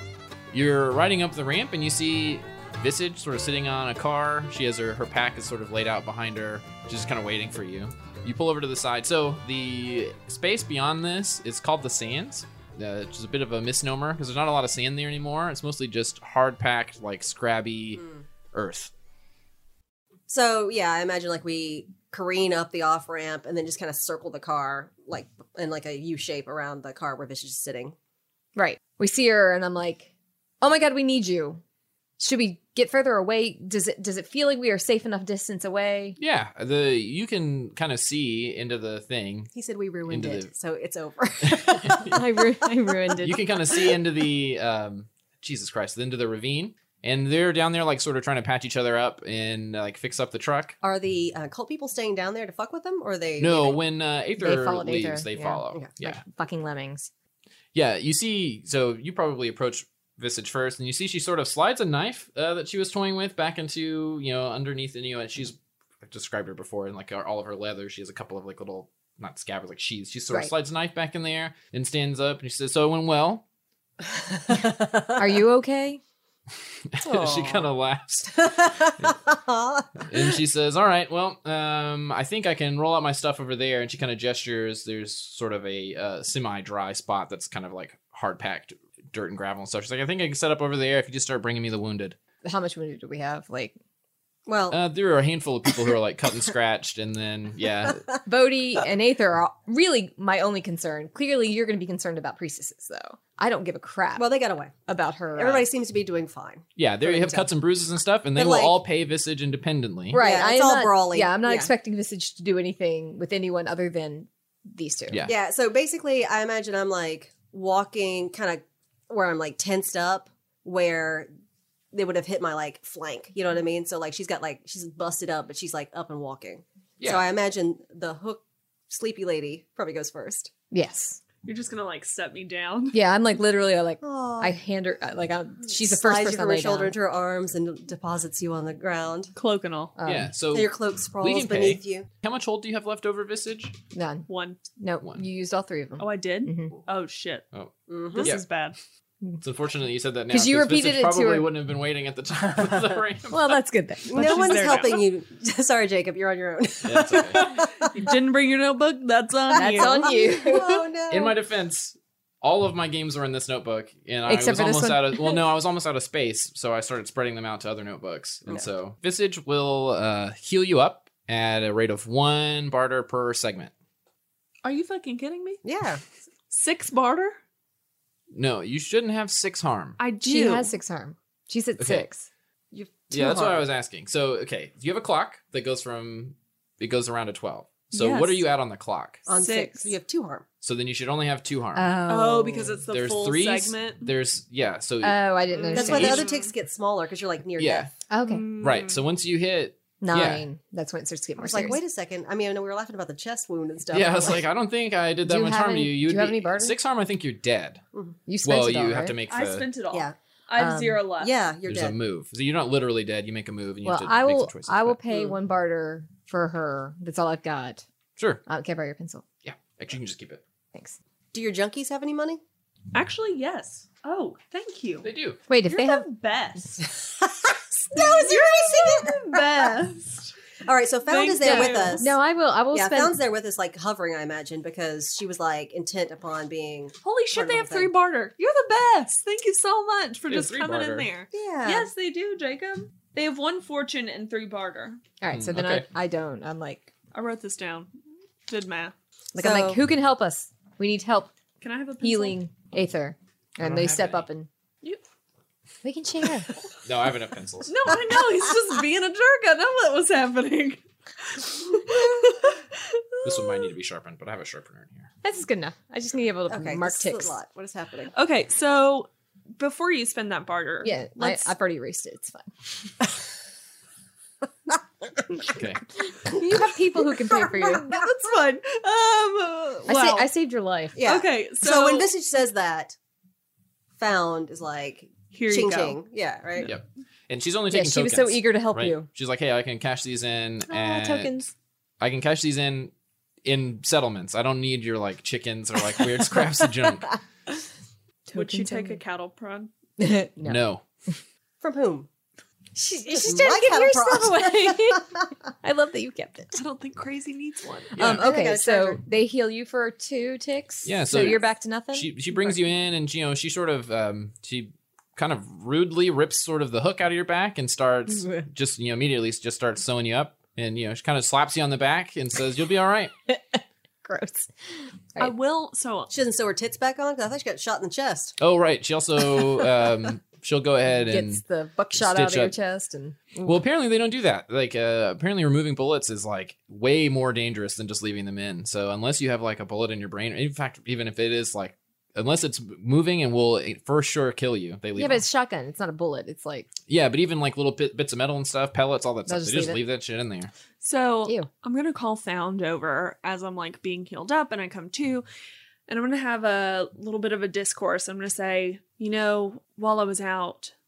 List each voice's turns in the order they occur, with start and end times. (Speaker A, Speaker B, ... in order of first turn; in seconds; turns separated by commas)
Speaker A: 0.5-18.9, Speaker B: 18.0-18.2, Speaker B: 20.3-27.9, Speaker C: 28.6-30.1, Speaker C: 30.6-31.6, Speaker C: 32.2-36.2, Speaker A: 36.2-39.5, Speaker B: 39.5-42.4, Speaker A: 40.1-40.5, Speaker A: 41.4-42.2, Speaker C: 42.1-43.5, Speaker A: 43.2-50.8, Speaker B: 50.8-53.8, Speaker A: 53.4-56.2, Speaker C: 54.4-57.1, Speaker A: 57.7-73.4, Speaker B: 74.0-75.4, Speaker C: 75.2-76.0, Speaker A: 76.9-78.5, Speaker B: 77.0-77.7, Speaker B: 78.3-80.3, Speaker A: 80.1-92.2, Speaker C: 92.4-93.7, Speaker B: 94.5-94.8, Speaker A: 94.7-98.0, Speaker C: 98.2-104.3, Speaker B: 104.2-104.7, Speaker C: 104.9-105.7, Speaker B: 105.3-107.5, Speaker A: 106.8-110.2, Speaker B: 108.3-108.8, Speaker C: 110.1-115.2, Speaker B: 110.1-111.7, Speaker A: 115.1-115.3, Speaker B: 115.2-121.3, Speaker B: 121.9-130.5, Speaker A: 127.0-127.2, Speaker C: 130.7-131.2, Speaker D: 131.4-132.9, Speaker C: 132.9-136.9, Speaker B: 134.0-134.6, Speaker B: 135.7-139.3, Speaker D: 139.3-139.9, Speaker C: 140.0-140.3, Speaker A: 140.0-143.7, Speaker B: 140.5-142.1, Speaker C: 143.9-146.8, Speaker D: 144.3-144.6, Speaker D: 146.0-147.4, Speaker A: 147.5-148.4, Speaker B: 147.9-148.3, Speaker D: 148.1-148.8, Speaker A: 149.4-153.6, Speaker C: 150.3-151.5, Speaker C: 153.3-154.4, Speaker B: 154.1-158.2, Speaker D: 154.1-155.0, Speaker A: 156.8-157.5, Speaker D: 157.8-160.2, Speaker B: 159.5-161.3, Speaker C: 159.5-160.8, Speaker A: 161.1-173.7, Speaker C: 164.3-165.4, Speaker D: 174.6-175.6, Speaker B: 175.6-176.0, Speaker D: 176.5-177.4, Speaker A: 178.3-180.0, Speaker D: 180.0-180.7, Speaker C: 180.2-182.3, Speaker A: 181.8-182.0, Speaker B: 182.7-183.7, Speaker A: 183.1-189.2, Speaker D: 187.9-188.4, Speaker B: 189.2-190.4, Speaker D: 189.3-189.9, Speaker A: 190.6-191.9, Speaker C: 191.7-192.8, Speaker D: 192.1-194.1, Speaker A: 192.9-195.2, Speaker C: 195.0-196.2, Speaker D: 195.5-196.5, Speaker B: 195.7-197.9, Speaker A: 195.8-196.2, Speaker A: 197.6-197.9, Speaker C: 198.1-198.5, Speaker D: 198.2-199.0, Speaker A: 198.6-200.4, Speaker C: 200.0-201.8, Speaker B: 201.4-204.4, Speaker A: 203.9-207.8, Speaker C: 205.2-206.7, Speaker C: 208.3-209.2, Speaker A: 208.4-209.7, Speaker D: 209.3-211.3, Speaker C: 210.6-211.0, Speaker B: 211.2-211.9, Speaker A: 211.7-215.0, Speaker C: 213.8-217.8, Speaker A: 218.2-218.4, Speaker C: 218.4-219.2, Speaker A: 219.4-220.4, Speaker B: 221.3-222.4, Speaker D: 222.9-225.1, Speaker A: 225.0-225.4, Speaker C: 225.5-226.1, Speaker D: 225.7-226.9, Speaker B: 227.0-229.8, Speaker D: 227.9-230.3, Speaker B: 230.6-232.1, Speaker D: 231.1-232.1, Speaker C: 231.4-233.1, Speaker B: 232.7-237.9, Speaker D: 237.0-245.0, Speaker A: 240.3-241.1, Speaker B: 241.3-241.9, Speaker C: 245.2-246.9, Speaker A: 245.3-245.8, Speaker D: 247.1-247.9, Speaker D: 248.5-248.9, Speaker B: 249.3-249.8, Speaker C: 249.3-251.3, Speaker D: 251.6-252.4, Speaker C: 252.0-254.5, Speaker A: 253.6-254.2, Speaker C: 255.8-256.5, Speaker A: 256.8-257.7, Speaker D: 257.6-263.7, Speaker A: 263.2-265.1, Speaker C: 265.2-267.3, Speaker B: 266.5-268.1, Speaker D: 268.1-271.5, Speaker C: 270.8-272.5, Speaker A: 275.5-275.8, Speaker C: 276.1-278.0, Speaker D: 277.3-280.3, Speaker C: 279.9-281.0, Speaker B: 280.9-282.9, Speaker D: 281.0-282.1, Speaker B: 284.0-286.7, Speaker D: 285.3-286.0, Speaker A: 286.6-291.4, Speaker C: 287.7-289.1, Speaker C: 290.7-291.5, Speaker A: 292.0-292.9, Speaker A: 293.4-297.2, Speaker C: 298.3-299.0, Speaker D: 298.3-299.7, Speaker C: 300.0-300.6, Speaker A: 300.4-300.8, Speaker B: 301.6-302.1, Speaker C: 302.8-306.6, Speaker B: 303.1-305.0, Speaker D: 306.5-307.9, Speaker A: 307.9-308.3, Speaker C: 307.9-312.1, Speaker B: 308.0-309.0, Speaker A: 310.8-323.1, Speaker C: 323.3-325.3, Speaker D: 325.2-326.1, Speaker B: 326.1-328.3, Speaker A: 328.4-332.5, Speaker C: 330.9-333.6, Speaker A: 333.4-345.2, Speaker C: 344.9-346.7, Speaker A: 346.9-350.5, Speaker C: 349.3-349.8, Speaker D: 350.8-355.2, Speaker D: 355.9-360.7